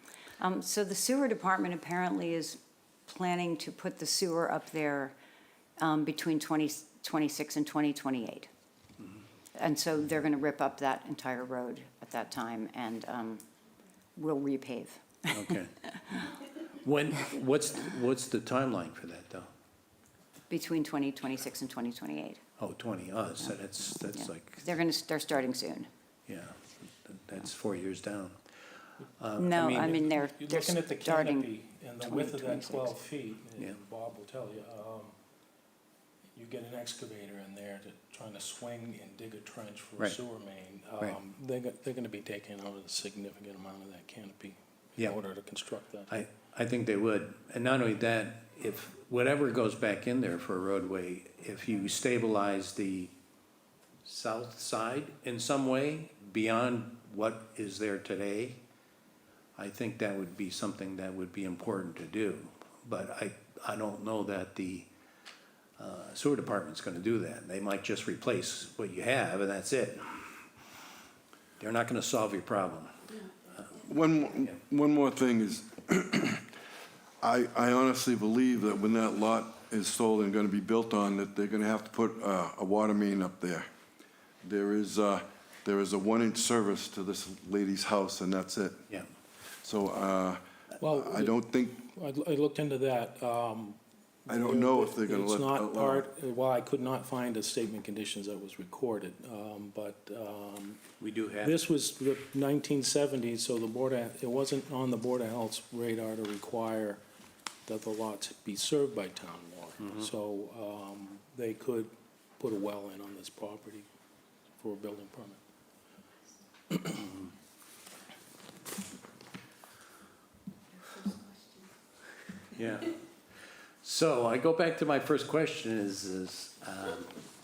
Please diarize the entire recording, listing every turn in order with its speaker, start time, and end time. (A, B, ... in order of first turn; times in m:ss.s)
0:00.4-0:05.2 A
0:05.8-0:08.5 A
0:09.5-0:13.4 A
0:14.2-0:15.4 A
0:15.3-0:19.5 B
0:20.5-0:22.4 A
0:22.6-0:24.7 B
0:24.2-0:25.9 A
0:26.3-0:28.4 B
0:29.2-0:30.1 B
0:29.4-0:31.5 A
0:30.2-0:35.1 C
0:32.0-0:32.9 A
0:36.4-0:46.2 C
0:46.1-0:53.1 B
0:54.0-0:58.6 B
0:59.6-1:04.9 B
1:05.8-1:10.5 B
1:11.6-1:13.7 B
1:13.7-1:16.4 D
1:17.2-1:23.7 D
1:24.4-1:28.8 D
1:29.6-1:31.8 D
1:30.8-1:40.8 C
1:34.3-1:36.1 D
1:41.0-1:41.6 B
1:41.4-1:47.0 C
1:47.7-1:53.9 C
1:49.8-1:50.1 B
1:54.6-1:55.4 C
1:56.8-1:57.3 B
2:02.5-2:03.0 B
2:03.8-2:07.2 B